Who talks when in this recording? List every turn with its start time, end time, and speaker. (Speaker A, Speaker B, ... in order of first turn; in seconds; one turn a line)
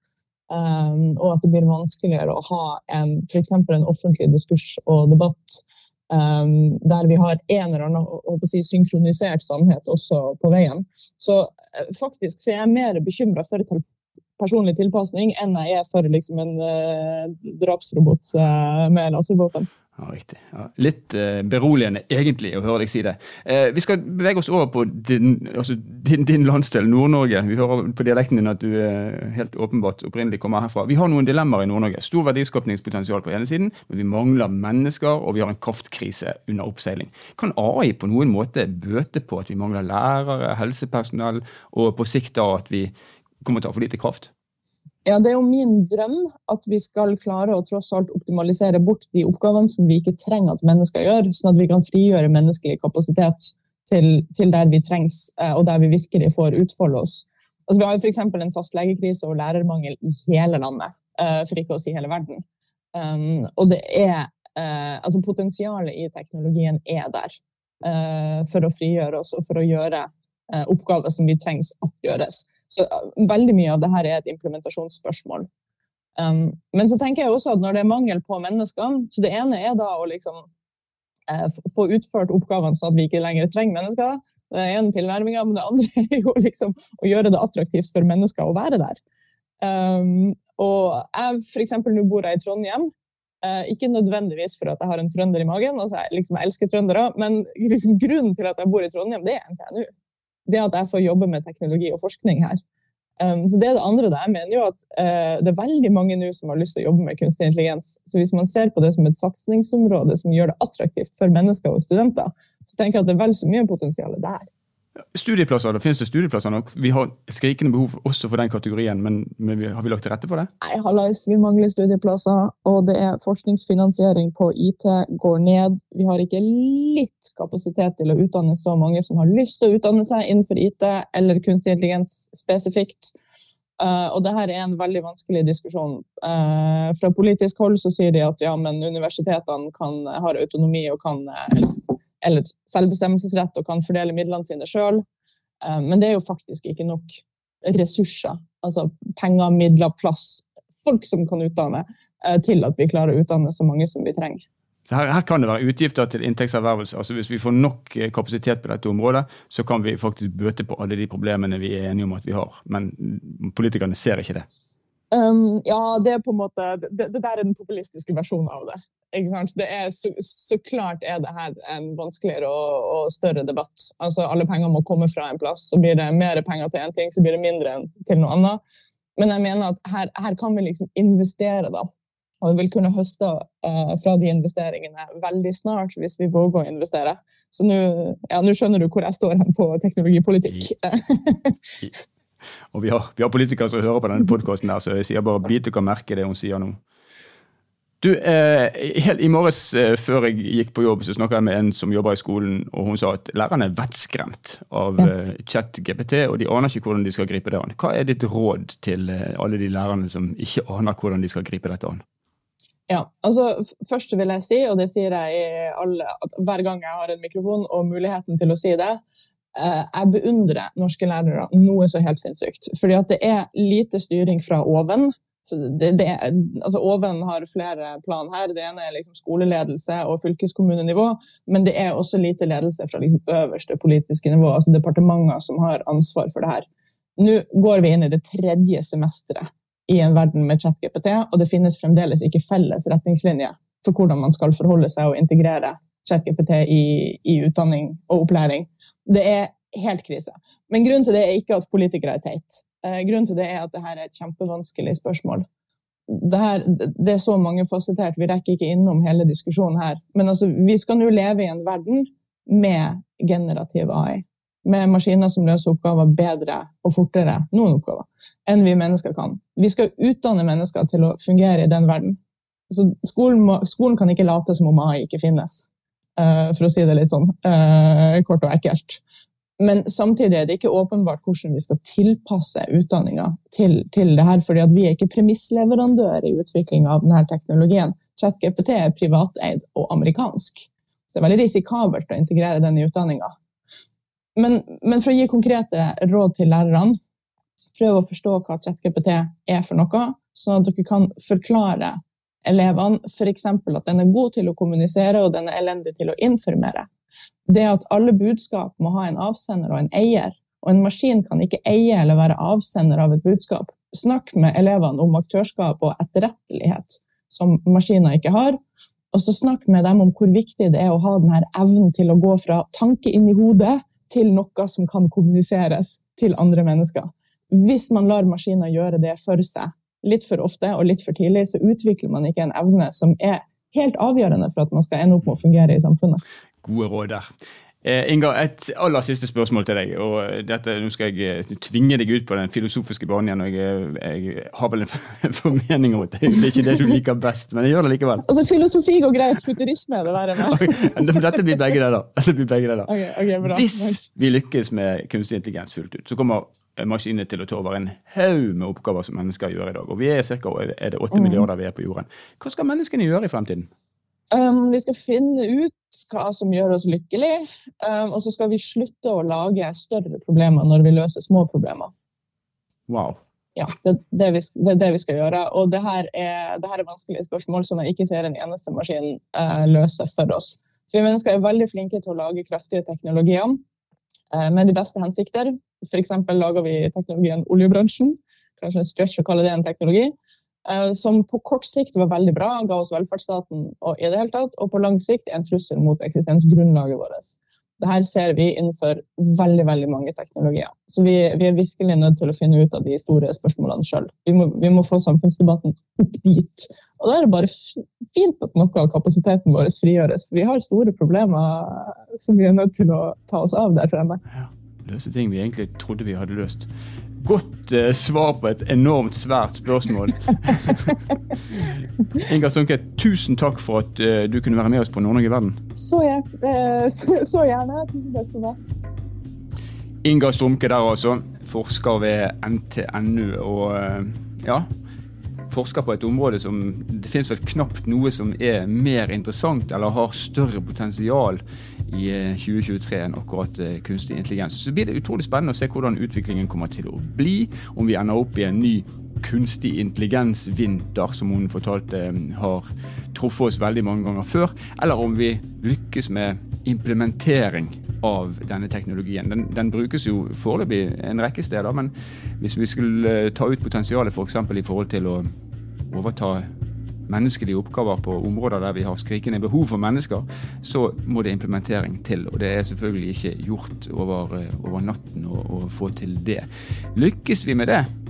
Speaker A: 0.5-13.8
Speaker A: 14.4-19.7
Speaker B: 20.0-44.3
Speaker A: 45.0-62.4
Speaker A: 63.0-75.5
Speaker A: 76.2-80.5
Speaker A: 81.3-89.0
Speaker A: 89.6-92.9
Speaker A: 93.4-99.9
Speaker A: 100.5-102.6
Speaker A: 103.2-114.5
Speaker B: 115.1-120.5
Speaker A: 120.6-133.1
Speaker A: 133.8-145.0
Speaker A: 145.6-154.4
Speaker B: 154.9-164.5
Speaker A: 165.1-178.6
Speaker A: 179.2-181.9
Speaker A: 182.4-191.6
Speaker B: 192.7-196.8
Speaker B: 198.0-212.0
Speaker A: 212.9-219.0
Speaker A: 219.6-236.7
Speaker A: 237.2-255.4
Speaker A: 256.1-279.0
Speaker A: 279.6-293.3
Speaker A: 294.4-297.0
Speaker A: 297.8-306.9
Speaker A: 307.5-318.6
Speaker A: 319.1-336.2
Speaker B: 336.6-337.3
Speaker B: 337.8-348.3
Speaker A: 348.2-351.4
Speaker B: 350.5-363.7
Speaker A: 352.9-354.0
Speaker A: 361.1-361.5
Speaker A: 364.3-371.9
Speaker B: 372.9-373.2
Speaker A: 373.6-383.6
Speaker A: 384.3-390.1
Speaker A: 390.6-414.2
Speaker B: 414.3-421.0
Speaker B: 421.5-425.6
Speaker A: 425.8-428.6
Speaker B: 430.0-434.7
Speaker B: 435.5-465.3
Speaker B: 465.9-466.5
Speaker B: 467.1-477.9